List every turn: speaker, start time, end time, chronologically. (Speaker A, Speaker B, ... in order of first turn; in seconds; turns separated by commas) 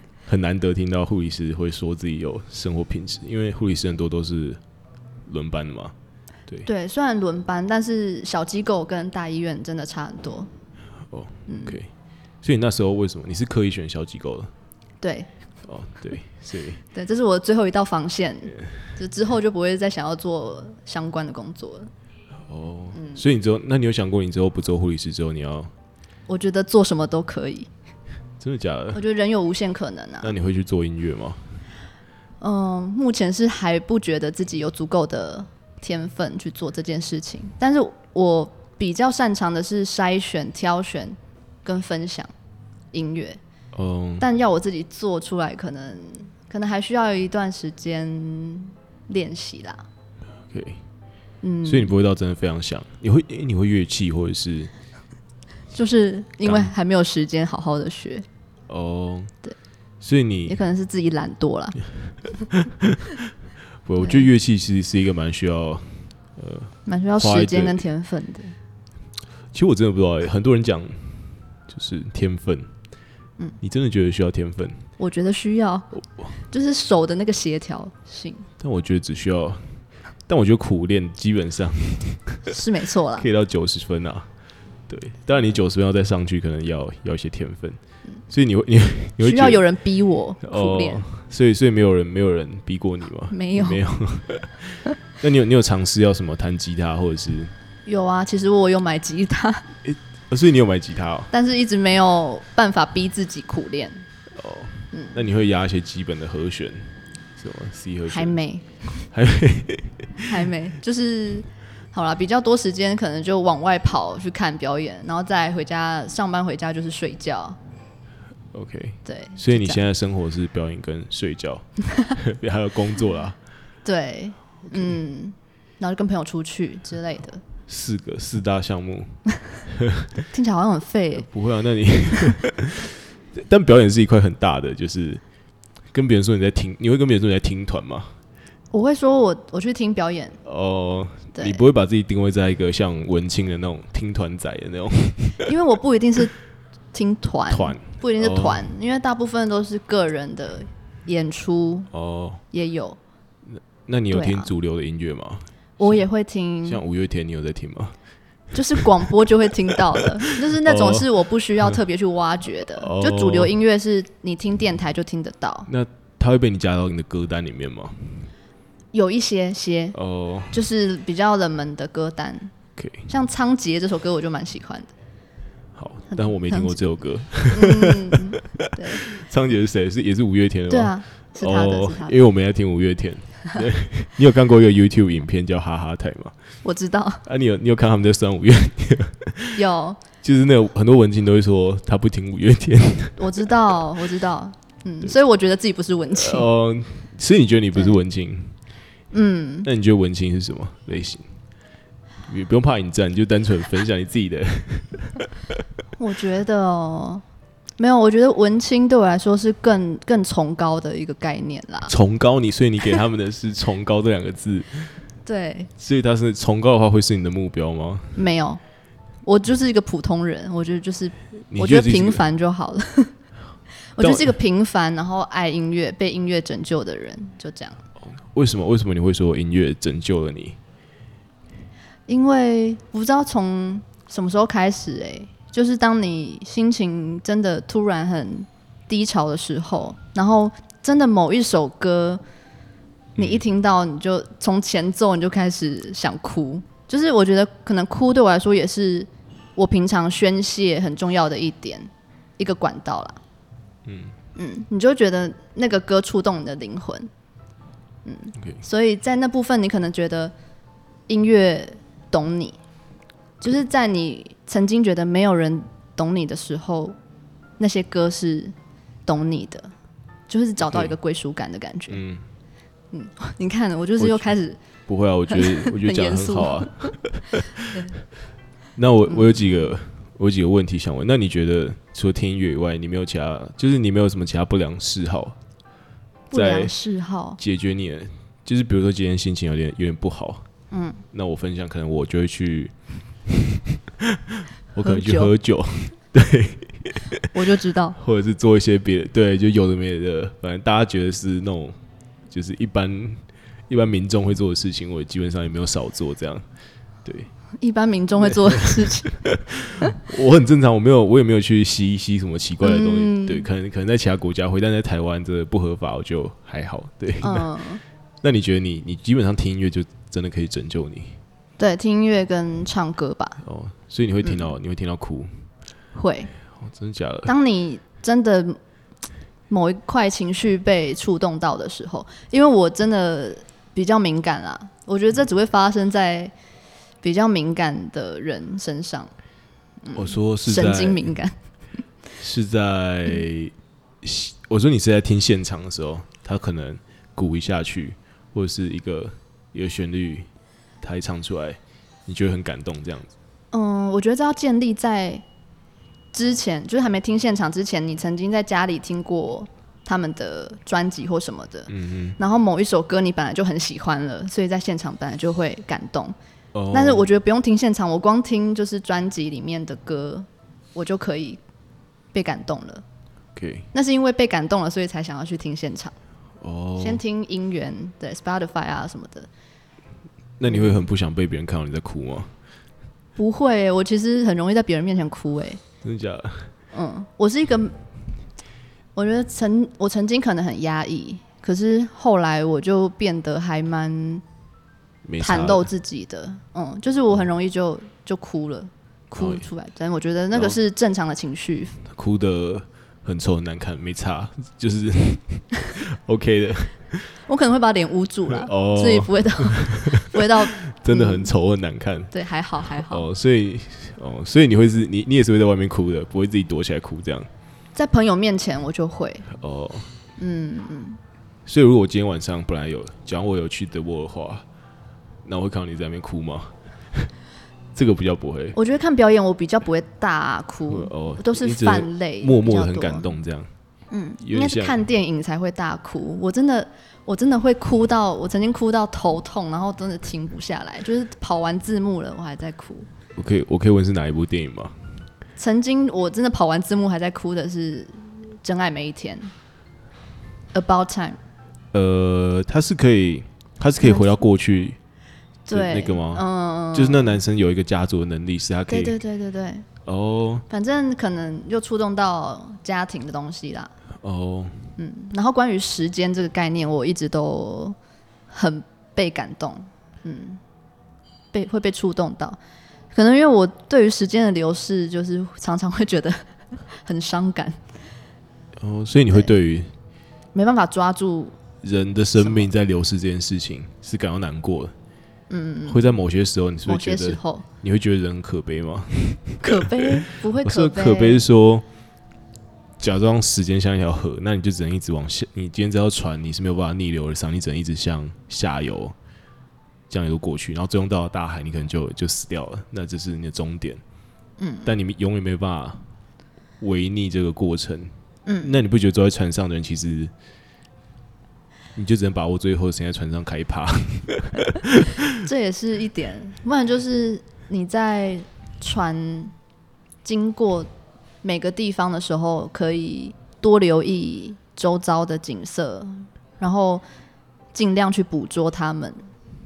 Speaker A: 0.2-4.6, Speaker A: 5.2-6.0, Speaker B: 6.6-10.5, Speaker A: 11.1-11.9, Speaker B: 11.5-11.8, Speaker A: 12.4-14.5, Speaker B: 15.0-15.3, Speaker A: 15.6-16.8, Speaker B: 16.9-21.9, Speaker A: 22.5-25.7, Speaker B: 22.9-23.2, Speaker B: 26.3-27.7, Speaker A: 28.4-29.0, Speaker B: 28.9-30.3, Speaker A: 30.2-31.4, Speaker B: 32.4-42.3, Speaker B: 42.9-43.4, Speaker A: 43.7-44.2, Speaker B: 44.2-49.9, Speaker A: 50.5-50.8, Speaker B: 51.4-51.9, Speaker A: 51.6-54.7, Speaker B: 55.7-58.2, Speaker A: 56.5-56.7, Speaker A: 58.7-59.3, Speaker A: 60.0-60.6, Speaker B: 60.5-61.8, Speaker A: 62.5-63.1, Speaker A: 63.9-67.8, Speaker B: 64.0-64.3, Speaker B: 66.9-68.6, Speaker A: 69.5-72.7, Speaker A: 73.6-74.8, Speaker B: 75.0-78.5, Speaker A: 76.0-76.3, Speaker A: 78.6-82.6, Speaker B: 82.5-83.3, Speaker A: 83.2-84.3, Speaker A: 84.9-89.6, Speaker B: 89.2-91.0, Speaker A: 90.4-97.5, Speaker B: 93.3-93.8, Speaker B: 97.9-99.7, Speaker A: 99.8-101.3, Speaker B: 101.3-104.0, Speaker A: 104.3-108.4, Speaker B: 104.9-105.2, Speaker B: 108.1-109.0, Speaker A: 109.1-110.3, Speaker B: 110.3-117.6, Speaker A: 118.5-123.4, Speaker B: 119.0-119.8, Speaker B: 123.8-127.4, Speaker A: 127.7-130.2, Speaker B: 130.3-131.3, Speaker A: 131.2-135.2, Speaker A: 135.9-138.1, Speaker B: 138.7-140.4, Speaker A: 140.4-145.5, Speaker B: 141.3-141.6, Speaker B: 145.4-146.3, Speaker B: 146.9-151.9, Speaker A: 147.5-148.7, Speaker A: 151.9-152.4, Speaker B: 152.5-153.0, Speaker A: 153.5-156.0, Speaker B: 154.1-154.5, Speaker B: 155.8-156.8, Speaker A: 156.6-158.0, Speaker B: 158.5-165.7, Speaker A: 158.8-159.1, Speaker A: 160.0-161.1, Speaker A: 162.8-163.5, Speaker A: 165.7-168.3, Speaker B: 168.9-170.0, Speaker A: 169.9-170.6, Speaker B: 170.5-172.5, Speaker A: 172.8-173.1, Speaker B: 173.1-174.9, Speaker A: 175.8-186.3, Speaker B: 176.1-176.8, Speaker B: 177.5-179.0, Speaker B: 180.7-182.2, Speaker B: 186.6-187.2, Speaker A: 187.2-189.6, Speaker B: 189.6-190.0, Speaker A: 190.2-193.7, Speaker B: 193.2-196.5, Speaker A: 196.1-198.6, Speaker B: 199.1-199.7, Speaker A: 199.6-201.3, Speaker A: 202.2-205.6, Speaker B: 206.0-207.2, Speaker B: 207.8-211.9, Speaker A: 211.9-215.0, Speaker B: 215.2-215.7, Speaker A: 215.8-218.2, Speaker B: 218.1-218.6, Speaker B: 219.2-223.1, Speaker A: 221.5-222.2, Speaker B: 223.9-227.8, Speaker A: 224.0-224.3, Speaker A: 228.0-230.6, Speaker B: 232.1-242.2, Speaker A: 243.2-243.4, Speaker B: 243.2-253.2, Speaker A: 253.9-254.1, Speaker B: 254.4-257.1, Speaker B: 258.0-260.3, Speaker A: 258.4-258.6, Speaker B: 261.1-262.6, Speaker B: 263.4-267.0, Speaker B: 267.6-268.5, Speaker B: 269.1-269.7, Speaker B: 270.3-272.0, Speaker A: 270.6-271.0, Speaker A: 271.9-272.2, Speaker B: 272.9-274.6, Speaker A: 274.0-274.3, Speaker A: 274.9-277.8, Speaker B: 275.3-277.9, Speaker A: 278.8-285.4, Speaker B: 279.1-279.7, Speaker B: 286.3-287.4, Speaker A: 286.3-286.7, Speaker A: 287.4-290.5, Speaker B: 290.7-291.0, Speaker A: 291.1-297.4, Speaker B: 294.8-295.3, Speaker B: 297.3-298.0, Speaker A: 297.9-301.8, Speaker A: 302.3-306.5, Speaker A: 307.0-307.3, Speaker B: 307.6-309.2, Speaker A: 308.2-317.5, Speaker B: 312.6-313.5, Speaker B: 317.2-317.8, Speaker A: 318.2-321.2, Speaker B: 321.6-323.4, Speaker A: 323.4-325.5, Speaker B: 325.9-326.3, Speaker A: 326.5-327.4, Speaker B: 327.3-328.6, Speaker B: 329.5-336.3, Speaker B: 337.0-339.1, Speaker B: 339.8-341.4, Speaker A: 339.9-341.1, Speaker A: 342.2-350.3, Speaker A: 350.8-353.1, Speaker B: 353.5-355.2, Speaker B: 356.1-366.1, Speaker A: 361.7-362.2, Speaker A: 366.5-367.1, Speaker B: 366.7-371.4, Speaker B: 372.1-372.8, Speaker A: 373.4-373.7, Speaker B: 373.7-376.0, Speaker A: 376.4-377.0, Speaker B: 376.8-379.3, Speaker A: 380.4-382.3, Speaker B: 383.1-385.6, Speaker A: 385.8-386.5, Speaker B: 386.7-387.8, Speaker B: 389.0-394.2, Speaker A: 395.0-395.7, Speaker B: 395.2-401.8, Speaker A: 399.1-399.5, Speaker A: 401.9-407.2, Speaker B: 407.3-411.3, Speaker A: 408.3-412.1, Speaker B: 412.1-413.1, Speaker A: 412.6-417.3, Speaker B: 417.8-419.3, Speaker A: 419.3-419.9, Speaker B: 420.2-421.0, Speaker A: 421.5-424.5, Speaker A: 425.2-427.1, Speaker A: 427.8-428.6, Speaker B: 428.5-433.1, Speaker A: 430.7-433.5, Speaker B: 433.9-442.9, Speaker A: 434.2-434.8, Speaker A: 443.1-445.0, Speaker B: 445.4-449.3, Speaker B: 450.5-451.2, Speaker A: 451.7-454.8, Speaker B: 453.8-454.2, Speaker B: 455.5-457.2, Speaker A: 455.5-459.0, Speaker B: 458.7-459.7, Speaker A: 459.8-460.5, Speaker B: 460.5-463.7, Speaker A: 464.0-464.8, Speaker B: 464.8-467.8, Speaker B: 468.3-470.4, Speaker B: 471.3-472.4, Speaker B: 472.9-476.2, Speaker B: 476.7-477.6, Speaker A: 478.6-479.7, Speaker B: 480.3-481.4, Speaker A: 481.6-484.8, Speaker B: 482.2-482.5, Speaker B: 485.3-485.8, Speaker A: 485.7-489.9, Speaker B: 486.7-487.5, Speaker B: 489.4-491.2, Speaker A: 490.4-491.7, Speaker A: 492.8-498.9, Speaker A: 499.9-503.8, Speaker B: 504.4-504.7, Speaker A: 504.6-505.8, Speaker A: 506.6-510.1, Speaker B: 508.3-508.6, Speaker A: 511.8-515.1, Speaker B: 515.2-519.3, Speaker B: 520.0-520.7, Speaker B: 521.2-526.8, Speaker B: 527.5-529.0